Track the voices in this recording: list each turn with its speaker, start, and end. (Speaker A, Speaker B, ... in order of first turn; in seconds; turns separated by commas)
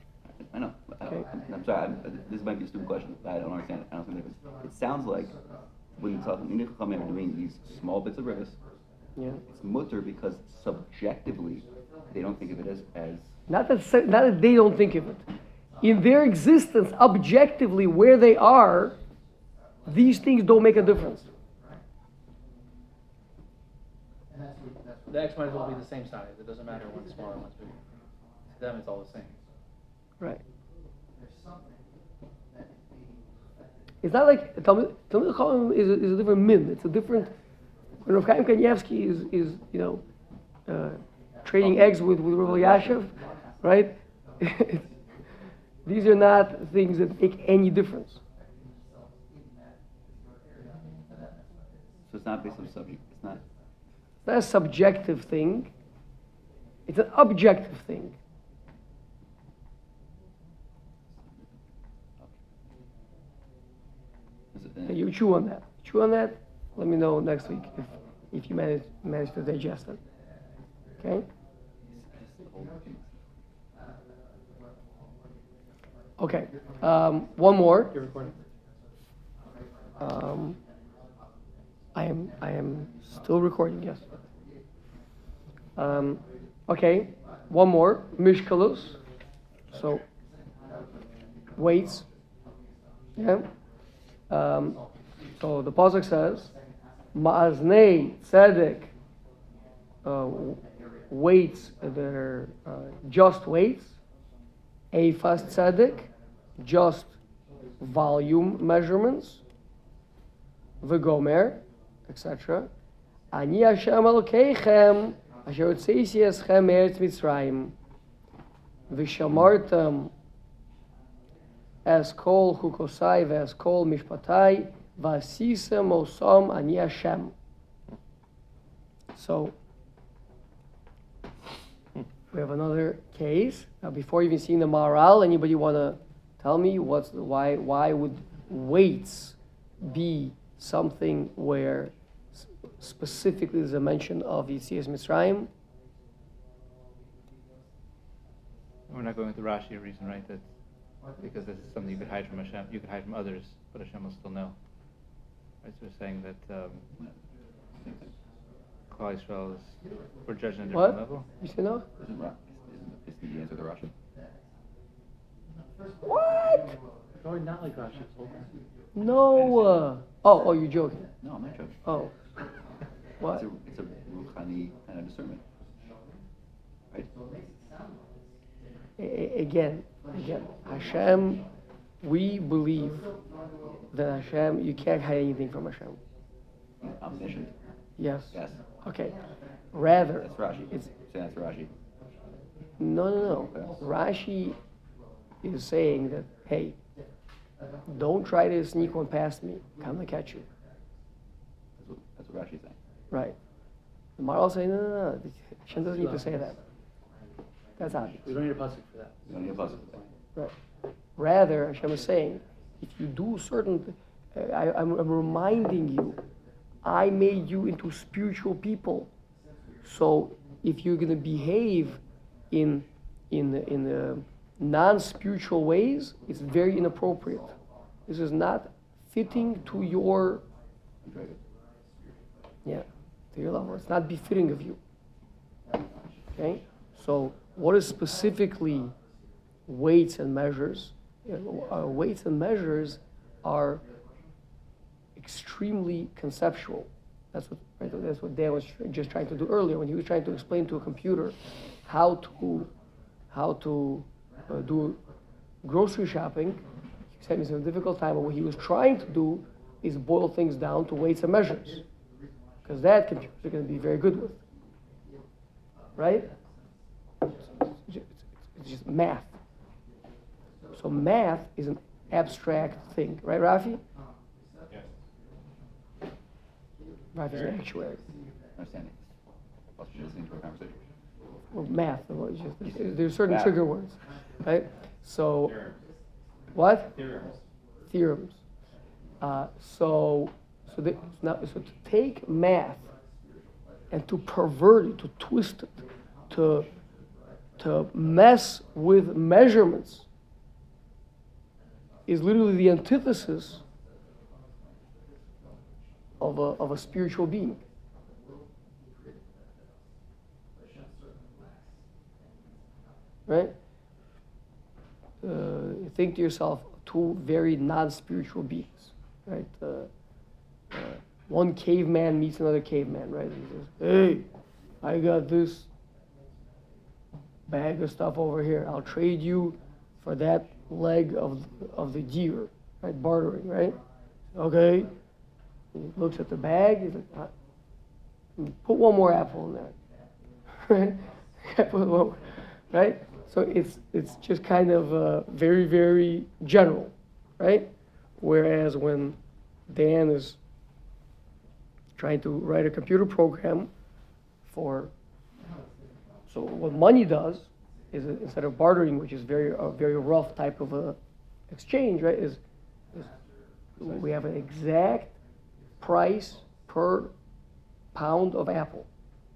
Speaker A: 0.3-5.4, Speaker A: 6.0-8.6, Speaker B: 9.2-9.4, Speaker A: 9.5-13.4, Speaker B: 13.5-15.2, Speaker B: 15.8-19.0, Speaker B: 19.9-21.3, Speaker C: 25.1-27.8, Speaker C: 28.5-29.4, Speaker B: 34.0-37.3, Speaker B: 38.0-40.0, Speaker B: 40.7-44.9, Speaker A: 41.6-43.1, Speaker B: 45.8-48.2, Speaker A: 52.1-53.4, Speaker B: 54.2-55.7, Speaker B: 56.9-58.2, Speaker A: 61.1-61.6, Speaker A: 64.5-65.0, Speaker B: 64.9-70.0, Speaker B: 71.0-71.3, Speaker A: 71.9-73.2, Speaker B: 76.2-77.9, Speaker C: 77.8-78.4, Speaker B: 80.0-80.6, Speaker B: 81.9-84.1, Speaker B: 85.8-89.0, Speaker B: 89.7-90.0, Speaker B: 91.6-92.0, Speaker B: 93.2-93.5, Speaker B: 94.3-94.8, Speaker B: 95.4-96.5, Speaker B: 97.1-98.9, Speaker B: 100.0-104.0, Speaker B: 104.9-107.2, Speaker B: 107.8-109.4, Speaker B: 110.8-112.7, Speaker B: 113.3-117.8, Speaker B: 118.9-120.1, Speaker B: 121.8-127.3, Speaker B: 129.2-129.5, Speaker B: 132.3-145.5, Speaker D: 148.9-150.5, Speaker D: 151.2-154.6, Speaker D: 155.6-156.9, Speaker A: 157.8-158.1, Speaker D: 158.9-161.3, Speaker B: 160.7-161.9, Speaker A: 162.0-163.9, Speaker B: 166.0-166.8, Speaker C: 167.2-168.5, Speaker B: 168.9-171.1, Speaker A: 169.0-169.9, Speaker A: 171.2-171.8, Speaker B: 171.8-172.2, Speaker B: 173.2-173.4, Speaker A: 173.3-175.4, Speaker B: 179.0-181.4, Speaker A: 180.7-181.4, Speaker B: 182.0-183.1, Speaker B: 183.9-186.0, Speaker A: 186.8-187.6, Speaker B: 188.0-189.2, Speaker A: 188.3-188.6, Speaker B: 189.7-190.9, Speaker A: 190.2-191.7, Speaker B: 192.8-194.6, Speaker A: 193.2-193.8, Speaker B: 195.4-196.8, Speaker B: 197.9-200.5, Speaker A: 201.8-202.8, Speaker B: 203.1-203.4, Speaker B: 204.2-206.6, Speaker C: 205.9-206.6, Speaker B: 207.8-208.2, Speaker C: 208.2-210.1, Speaker A: 209.3-210.0, Speaker B: 211.2-216.2, Speaker B: 216.8-219.1, Speaker B: 219.8-227.6, Speaker B: 228.1-230.4, Speaker A: 231.0-231.4, Speaker B: 232.7-234.8, Speaker B: 236.3-238.9, Speaker B: 239.7-243.8, Speaker B: 245.2-252.7, Speaker B: 253.3-255.0, Speaker B: 255.6-256.6, Speaker B: 257.2-261.8, Speaker B: 262.6-264.4, Speaker B: 266.0-266.3, Speaker B: 267.4-269.4, Speaker B: 270.7-273.8, Speaker B: 277.1-278.0, Speaker A: 278.6-279.1, Speaker A: 279.8-280.8, Speaker B: 281.5-285.6, Speaker A: 282.6-283.6, Speaker B: 286.5-287.0, Speaker B: 287.9-288.4, Speaker B: 289.2-292.9, Speaker B: 293.9-296.7, Speaker B: 297.6-300.1, Speaker B: 302.1-303.6, Speaker B: 306.2-307.6, Speaker B: 313.3-313.6, Speaker B: 315.2-319.9, Speaker B: 320.7-324.3, Speaker B: 324.8-325.7, Speaker B: 327.5-333.8, Speaker B: 334.4-334.9, Speaker B: 335.7-337.3, Speaker B: 338.4-339.8, Speaker B: 340.6-349.2, Speaker B: 349.7-350.4, Speaker B: 352.0-353.7, Speaker B: 354.4-354.9, Speaker B: 356.3-361.0, Speaker B: 361.5-362.4, Speaker B: 363.8-365.2, Speaker B: 365.8-367.1, Speaker B: 367.9-368.9